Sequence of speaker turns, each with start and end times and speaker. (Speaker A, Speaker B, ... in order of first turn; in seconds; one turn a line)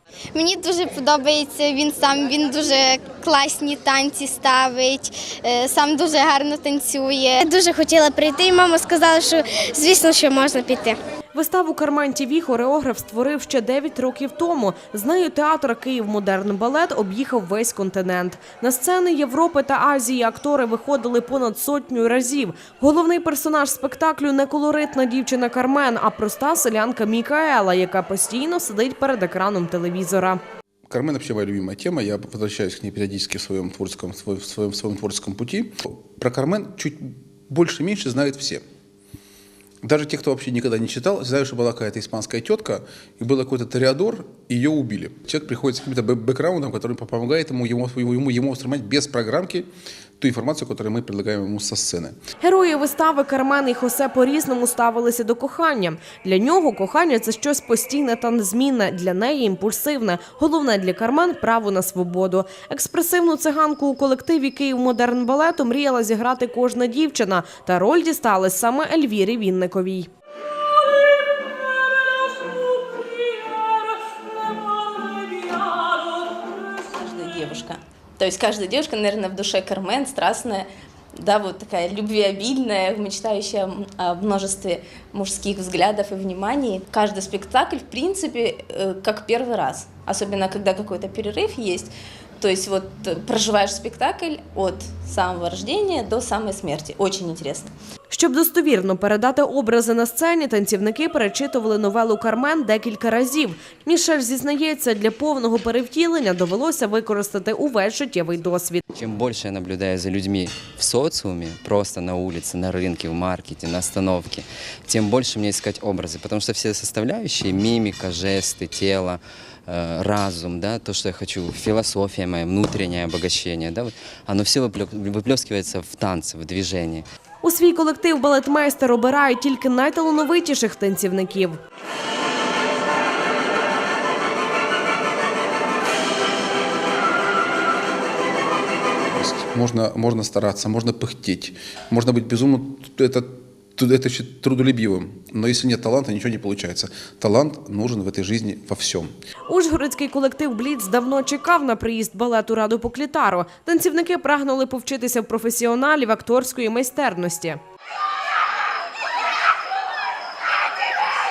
Speaker A: 0.3-11.0
Speaker B: 11.3-30.4
Speaker C: 30.9-38.6
Speaker C: 39.8-49.7
Speaker C: 50.2-52.1
Speaker B: 52.4-70.1
Speaker D: 76.9-80.7
Speaker D: 81.2-97.7
Speaker B: 98.1-108.8
Speaker E: 108.9-127.0
Speaker B: 127.4-131.6
Speaker C: 139.1-149.1
Speaker B: 149.5-157.6